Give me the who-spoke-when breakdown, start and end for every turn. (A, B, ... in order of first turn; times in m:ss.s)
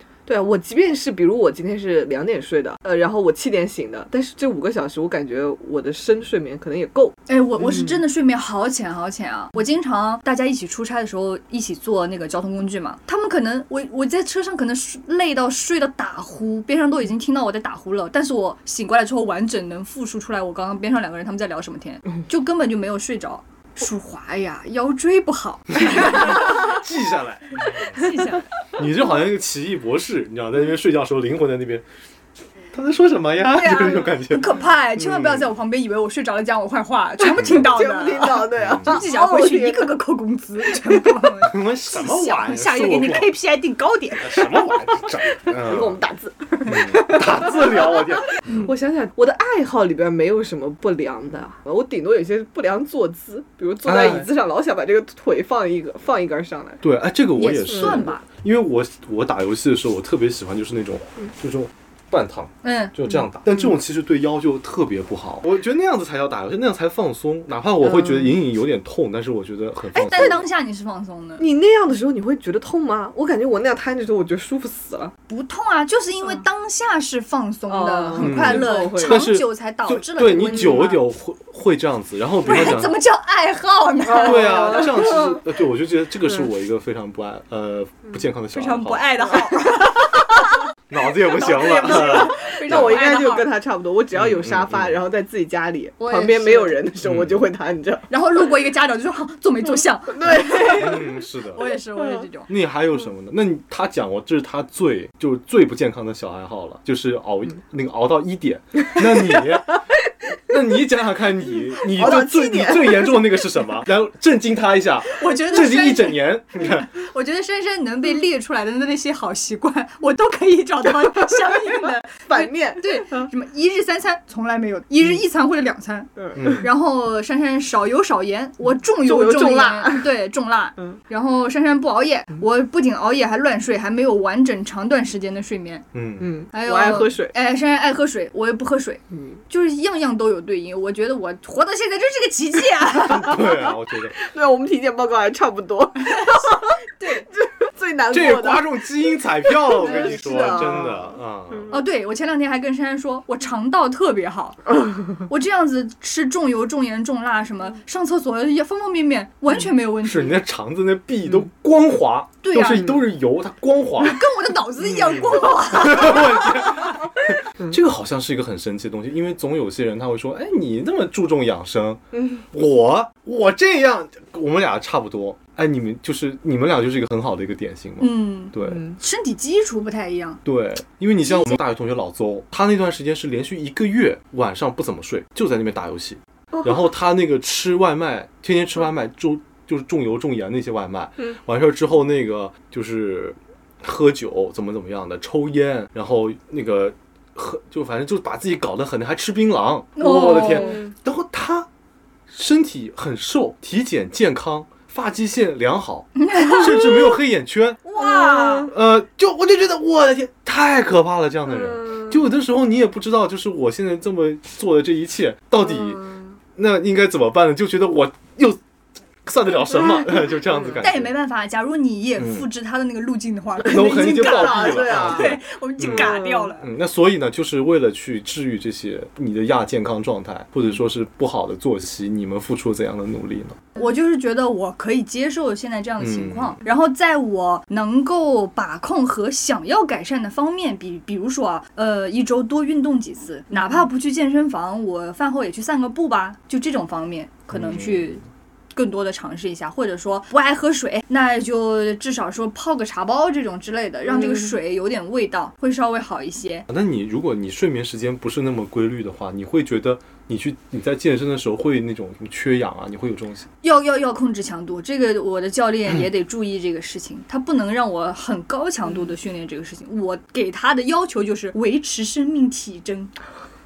0:00.3-0:07.8 A
0:07.3-0:26.7 B
0:26.0-0:28.1 C
0:27.9-0:28.5 B
0:28.8-0:31.8 C
0:32.7-0:35.5 C
0:33.5-0:44.7 B
0:37.4-0:37.7 C
0:37.4-0:40.0 A
0:38.6-0:39.0 C
0:41.4-0:43.3 C
0:44.2-0:46.0 C
0:45.5-0:56.8 A
0:46.7-0:48.7 C
0:53.8-0:54.3 C
0:56.8-1:10.4 C
0:57.4-0:58.2 B
0:57.8-0:58.1 A
1:02.6-1:03.0 B
1:09.9-1:11.5 B
1:11.4-1:15.1 A
1:15.3-1:21.0 B
1:17.7-1:19.3 A
1:18.2-1:23.0 C
1:20.6-1:20.9 A
1:22.4-1:24.9 B
1:24.1-1:25.3 A
1:24.2-1:29.1 C
1:28.5-1:30.6 B
1:30.9-1:33.0 C
1:31.3-1:33.5 B
1:31.5-1:38.1 A
1:34.1-1:35.0 C
1:36.0-1:36.8 B
1:37.0-1:37.4 C
1:38.1-1:42.5 B
1:40.1-1:41.1 A
1:40.7-1:41.6 C
1:42.5-1:49.8 C
1:50.5-1:56.9 C
1:51.8-1:53.3 A
1:55.1-2:15.8 B
2:02.3-2:03.3 A
2:06.2-2:06.6 A
2:06.4-2:06.7 C
2:09.0-2:10.1 A
2:15.9-2:16.3 C
2:16.2-2:17.3 A
2:16.5-2:23.5 B
2:19.1-2:19.4 A
2:23.1-2:24.2 C
2:24.2-2:26.8 A
2:26.1-2:27.3 B
2:27.3-2:31.2 A
2:28.1-2:31.7 C
2:29.8-2:30.8 B
2:31.7-2:40.4 B
2:40.0-2:44.2 C
2:42.4-2:43.0 B
2:44.0-2:47.0 B
2:44.8-2:52.0 C
2:52.1-2:52.4 A
2:52.5-2:58.8 C
2:58.0-3:00.4 B
3:00.4-3:21.7 C
3:01.3-3:01.6 B
3:20.0-3:20.8 B
3:20.5-3:20.9 A
3:22.3-3:27.8 C
3:26.2-3:27.1 B
3:27.8-3:28.7 B
3:28.0-3:28.7 A
3:28.7-3:38.6 C
3:31.7-3:32.0 A
3:39.2-3:41.1 C
3:40.5-3:40.8 A
3:40.8-3:46.7 B
3:42.2-3:42.5 C
3:43.6-3:53.6 C
3:43.7-3:45.4 A
3:45.9-3:46.5 A
3:53.8-4:08.2 B
3:56.0-3:56.6 C
4:07.5-4:08.2 C
4:08.7-4:16.7 B
4:16.7-4:23.5 C
4:23.6-4:33.1 B